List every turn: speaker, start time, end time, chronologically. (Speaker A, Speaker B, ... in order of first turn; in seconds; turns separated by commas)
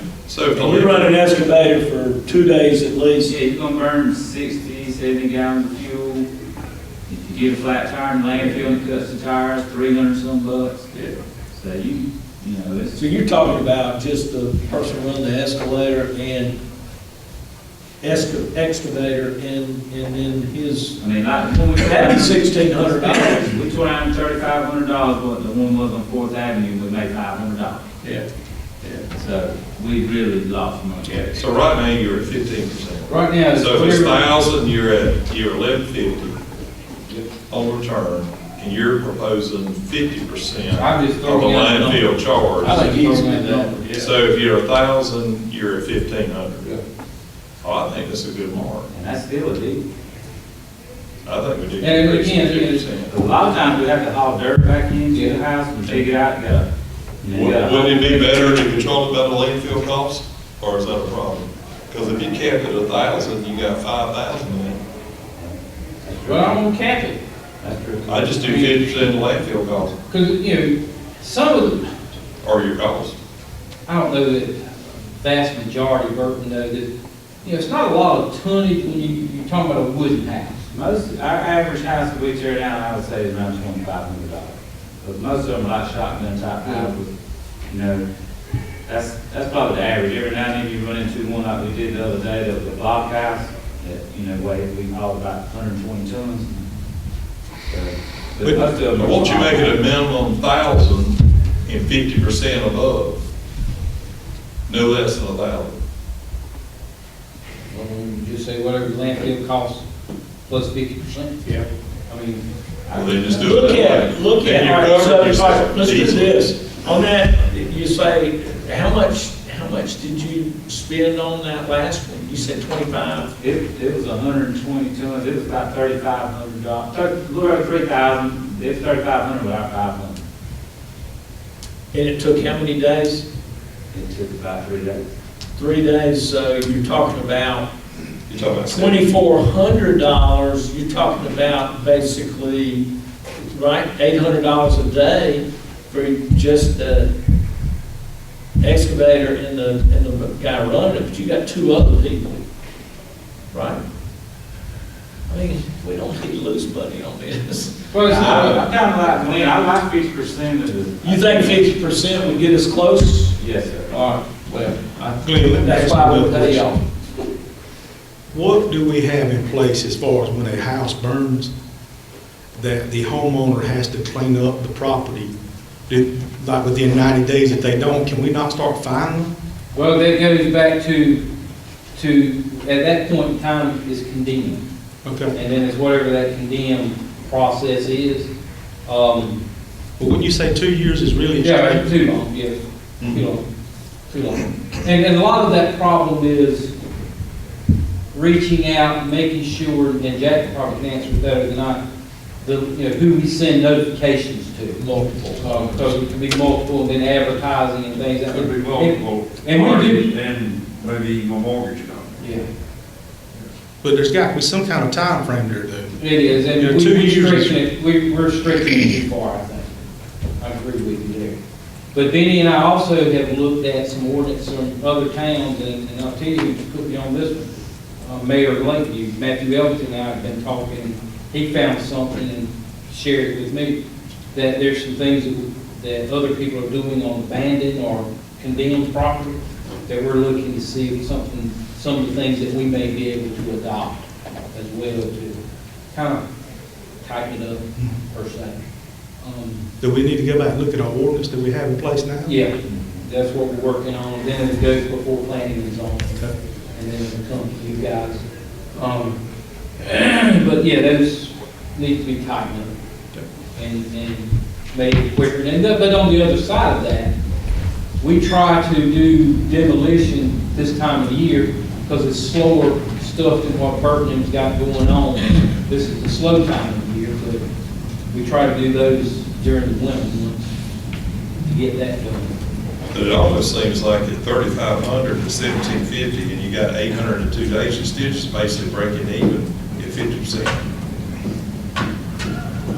Speaker A: 0.3-1.1, Speaker B: 0.5-3.3, Speaker C: 3.2-6.3, Speaker C: 7.1-10.8, Speaker C: 11.5-13.0, Speaker B: 12.9-16.6, Speaker B: 18.0-21.0, Speaker C: 21.0-27.8, Speaker B: 21.7-23.6, Speaker C: 29.1-31.3, Speaker A: 31.3-36.4, Speaker D: 33.1-34.3, Speaker A: 37.5-42.8, Speaker D: 40.7-43.7, Speaker B: 42.6-44.1, Speaker A: 43.9-46.7, Speaker A: 47.6-48.9, Speaker C: 48.9-49.8, Speaker A: 51.2-53.1, Speaker D: 51.8-52.9, Speaker C: 53.1-56.7, Speaker D: 55.1-55.4, Speaker C: 57.2-58.3, Speaker A: 57.3-64.8, Speaker C: 65.4-66.6, Speaker D: 66.2-67.2, Speaker C: 67.6-68.3, Speaker A: 68.0-69.9, Speaker D: 68.4-68.8, Speaker D: 70.1-72.0, Speaker A: 72.4-73.2, Speaker D: 73.8-76.9, Speaker D: 77.4-80.7, Speaker C: 80.7-87.1, Speaker D: 86.6-86.9, Speaker C: 87.7-88.0, Speaker C: 88.8-96.7, Speaker C: 97.7-99.8, Speaker A: 98.9-103.2, Speaker A: 104.7-105.8, Speaker D: 107.7-109.8, Speaker D: 110.5-112.4, Speaker A: 112.9-116.4, Speaker B: 113.3-123.3, Speaker C: 123.4-130.2, Speaker B: 131.9-133.2, Speaker C: 133.9-135.0, Speaker B: 135.6-137.7, Speaker A: 138.3-139.1, Speaker B: 138.7-142.8, Speaker B: 143.3-147.1, Speaker B: 148.6-152.4, Speaker B: 153.5-153.8, Speaker B: 155.3-158.6, Speaker D: 157.9-158.6, Speaker C: 158.0-161.6, Speaker B: 161.0-163.3, Speaker C: 163.4-164.0, Speaker B: 163.9-165.0, Speaker E: 165.2-166.7, Speaker D: 165.6-166.8, Speaker B: 165.8-166.3, Speaker E: 168.3-171.5, Speaker E: 172.6-175.3, Speaker E: 175.9-179.3, Speaker D: 179.7-181.2, Speaker D: 181.9-184.6, Speaker E: 185.0-185.3, Speaker D: 185.3-188.3, Speaker D: 188.8-189.4, Speaker E: 190.0-191.9, Speaker D: 191.4-193.4, Speaker D: 194.1-196.7, Speaker D: 198.1-201.8, Speaker D: 202.4-204.8, Speaker B: 204.8-205.9, Speaker D: 205.4-210.1, Speaker F: 208.3-212.2, Speaker D: 212.2-212.4, Speaker E: 213.8-215.9, Speaker D: 216.0-219.7, Speaker E: 216.4-217.6, Speaker D: 220.4-221.4, Speaker D: 221.9-233.8, Speaker D: 234.3-245.4, Speaker D: 245.9-246.2, Speaker D: 247.0-248.6, Speaker D: 249.2-249.7, Speaker E: 249.8-252.3, Speaker D: 252.2-256.2, Speaker D: 256.7-258.2, Speaker D: 258.7-259.2, Speaker D: 259.8-262.7, Speaker D: 263.6-267.1, Speaker D: 268.0-277.4, Speaker D: 278.1-280.5, Speaker D: 281.4-282.4, Speaker A: 282.9-290.6